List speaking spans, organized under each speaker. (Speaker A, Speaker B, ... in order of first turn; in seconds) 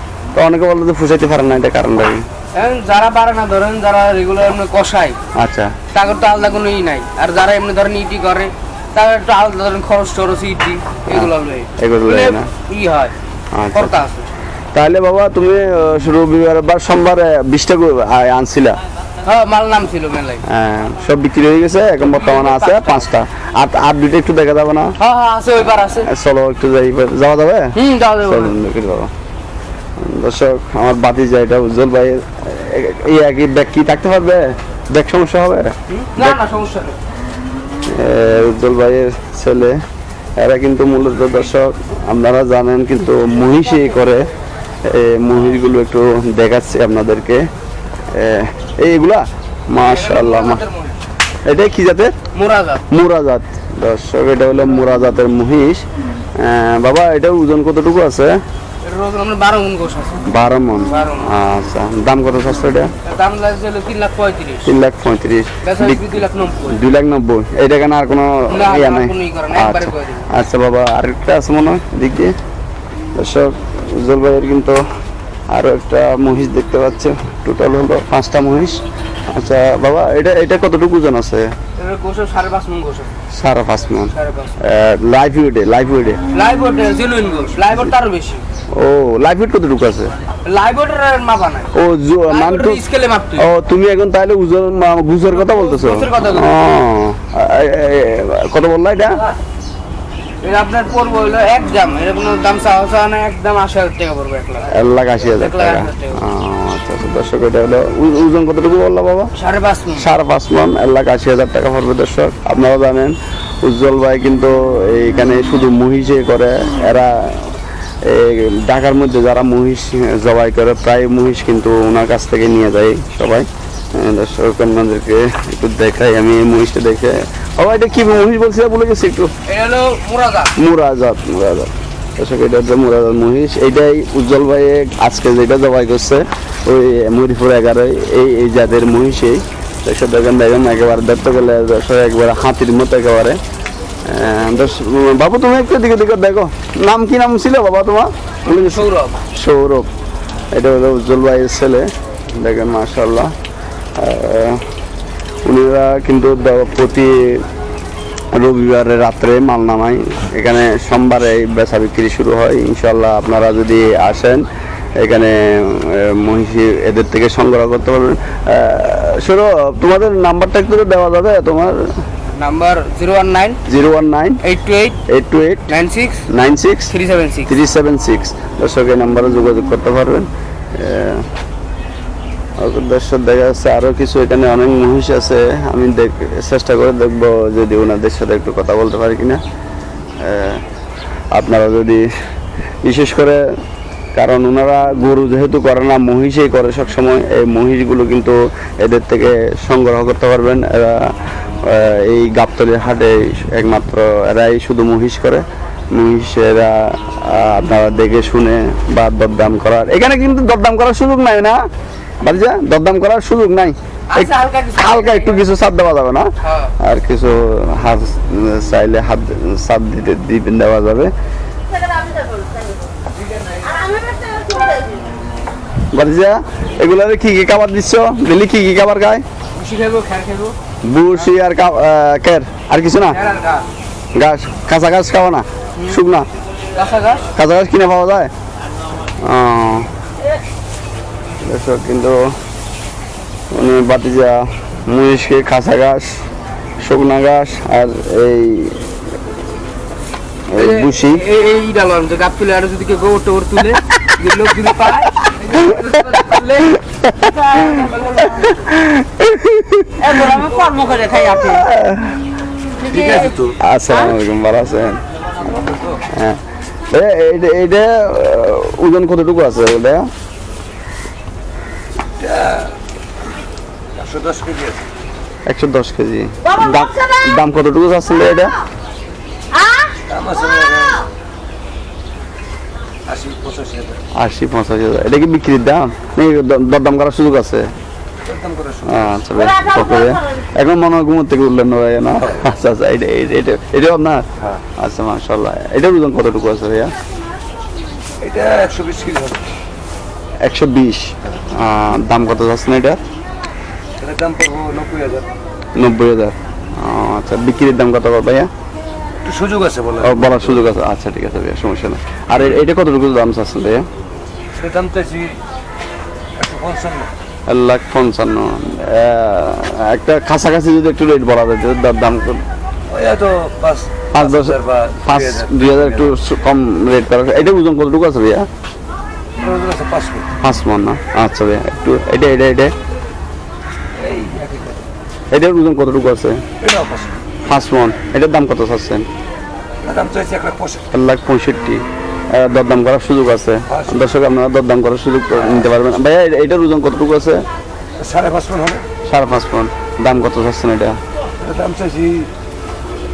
Speaker A: 0.3-2.2, 5.4-5.8, 11.1-12.5, 13.5-13.9, 14.7-18.8, 20.5-24.9, 25.9-29.1, 30.0-36.4, 37.9-39.8, 40.4-44.3, 44.8-47.5, 48.1-50.6, 51.5-52.1, 52.9-58.4, 60.3-62.9, 64.7-72.3, 73.2-74.8, 75.5-81.5, 83.3-86.2, 88.7-90.1, 91.7-92.8, 93.4-99.2, 104.7-109.3, 110.0-129.3, 130.6-143.4, 144.1-149.9, 150.5-153.3, 154.0-154.6, 155.4-157.4, 158.3-164.5, 165.0-171.9, 173.7-174.4, 175.1-175.7, 176.3-176.9, 177.5-181.3, 182.6-189.4, 190.2-190.6, 191.3-192.1, 192.8-193.5, 194.1-211.7, 212.2-221.1, 225.9-229.2, 230.8-233.2, 234.1-236.3, 237.3-238.3, 239.2-239.9, 241.4-242.3, 243.5-246.2, 246.8-248.8, 250.5-251.2, 256.6-260.2, 261.1-262.2, 263.6-265.0, 266.1-270.1, 275.5-278.6, 284.1-287.7, 288.9-294.2, 294.8-296.9, 300.4-303.0, 305.8-308.5, 310.0-313.9, 317.5-322.4, 324.1-328.5, 330.4-332.7, 335.3-336.4, 337.5-339.1, 340.9-347.5, 349.1-351.0
Speaker B: 2.5-5.2, 5.9-13.1, 13.7-14.3, 19.2-20.4, 22.2-23.0, 25.0-26.1, 27.7-28.5, 35.9-37.0, 49.8-51.0, 52.3-52.8, 58.8-60.3, 60.9-61.3, 63.0-64.7, 65.6-66.8, 68.5-70.3, 81.8-83.1, 84.0-84.6, 86.3-88.4, 90.4-91.8, 92.3-93.5, 95.3-96.7, 100.4-106.3, 109.3-110.1, 129.5-130.5, 148.4-149.2, 172.3-173.6, 174.4-175.0, 175.7-176.3, 176.9-177.6, 214.1-215.5, 216.4-216.7, 223.7-224.4, 229.5-230.6, 233.1-233.7, 236.8-237.3, 250.5-258.6, 260.0-261.7, 262.8-263.4, 263.9-264.2
Speaker C: 262.8-263.6, 265.6-266.0, 272.2-272.8, 273.9-274.9, 280.1-281.1, 283.1-284.0, 288.2-289.1, 298.2-299.4, 304.0-305.3, 309.2-310.7, 314.5-315.4, 316.4-317.1, 322.9-326.2, 329.4-330.3, 334.0-334.9, 336.6-337.1, 339.8-340.9, 343.7-344.1, 348.0-348.8, 351.4-352.3